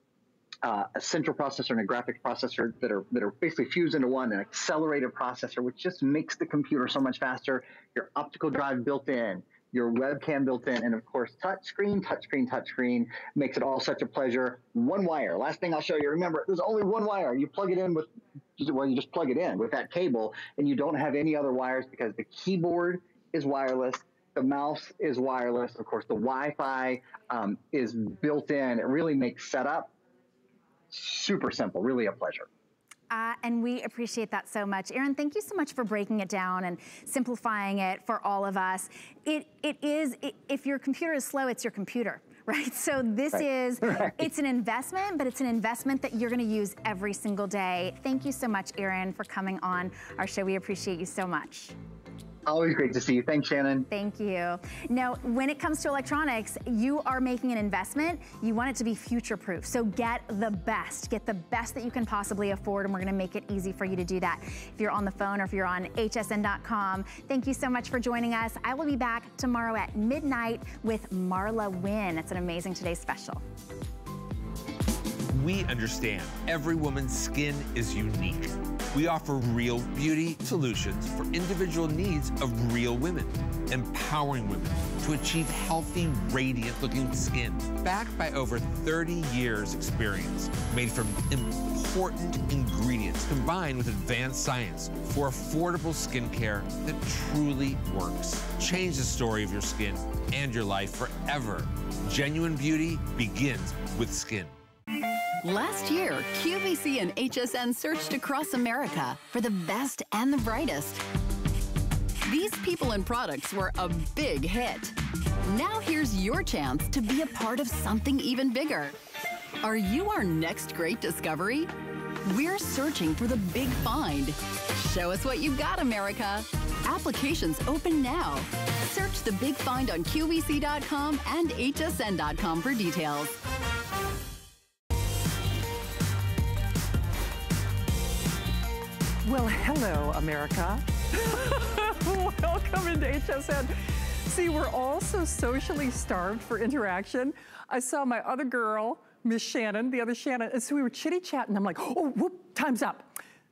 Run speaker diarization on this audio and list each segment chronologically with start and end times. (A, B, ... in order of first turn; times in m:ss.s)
0:00.6-0:29.9 A
0:30.9-0:32.5 A
0:33.1-0:51.7 B
0:43.9-0:44.2 A
0:52.4-0:53.9 A
0:53.9-1:13.4 B
1:15.3-1:44.5 C
1:45.4-1:51.0 D
1:52.2-1:59.0 D
1:59.6-2:01.7 D
2:02.2-2:13.4 D
2:19.2-2:33.1 E